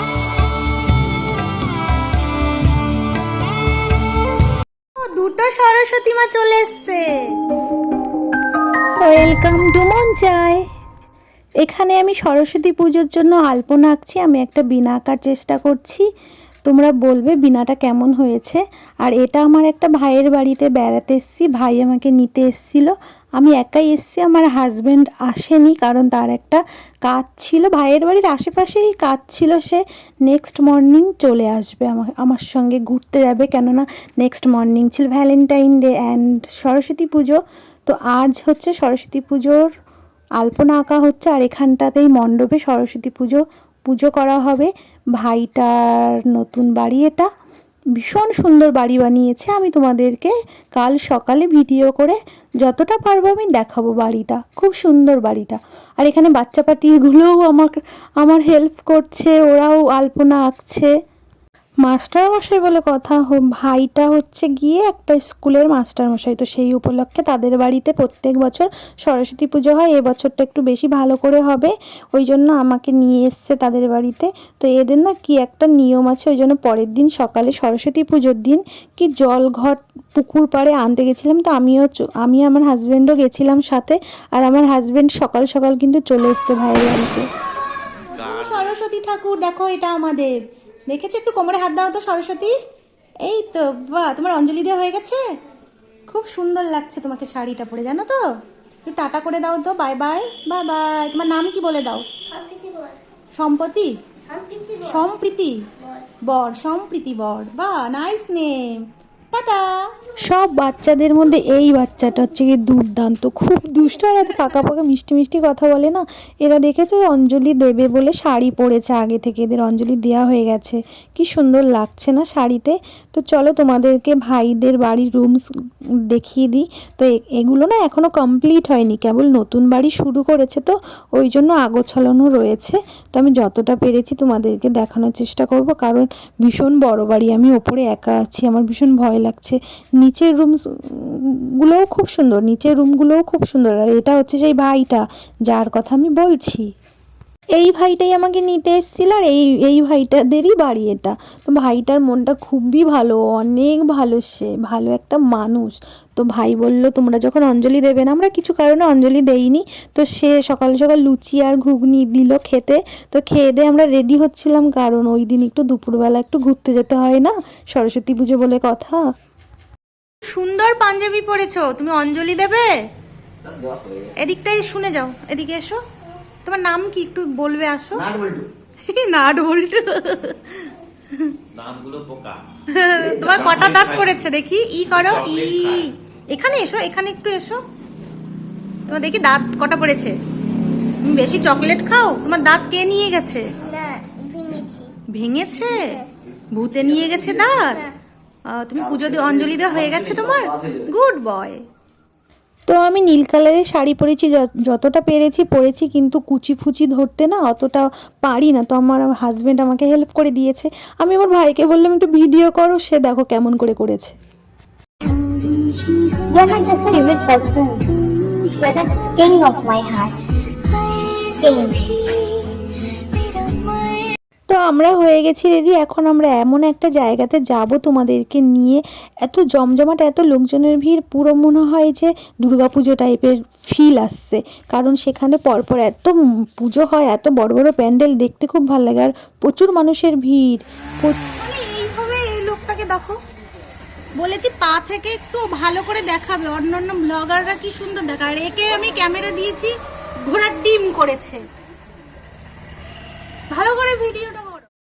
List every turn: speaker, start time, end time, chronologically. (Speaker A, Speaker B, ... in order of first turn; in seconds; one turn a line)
Speaker A: 5.0-7.3
Speaker B: 9.0-10.6
Speaker B: 11.6-16.1
Speaker B: 16.6-39.7
Speaker B: 40.4-47.3
Speaker B: 48.0-60.9
Speaker B: 61.8-87.3
Speaker C: 88.1-88.8
Speaker A: 88.4-90.3
Speaker A: 90.9-92.5
Speaker A: 93.2-95.2
Speaker A: 96.1-98.2
Speaker A: 98.9-102.0
Speaker A: 103.4-103.9
Speaker A: 104.7-105.6
Speaker A: 106.2-108.8
Speaker A: 109.3-109.8
Speaker B: 110.3-125.4
Speaker B: 126.1-146.7
Speaker B: 147.6-169.0
Speaker A: 170.3-172.7
Speaker A: 174.2-175.8
Speaker A: 176.4-178.1
Speaker A: 178.9-180.4
Speaker C: 181.5-182.4
Speaker A: 182.8-187.6
Speaker C: 183.0-184.2
Speaker C: 184.9-185.9
Speaker A: 188.9-190.2
Speaker A: 191.0-193.5
Speaker A: 194.0-197.8
Speaker A: 198.5-201.6
Speaker B: 202.7-214.1
Speaker D: 215.3-224.1
Speaker B: 224.5-241.3
Speaker A: 241.3-243.2
Speaker A: 244.2-249.7
Speaker A: 250.3-251.4
Speaker A: 253.5-254.6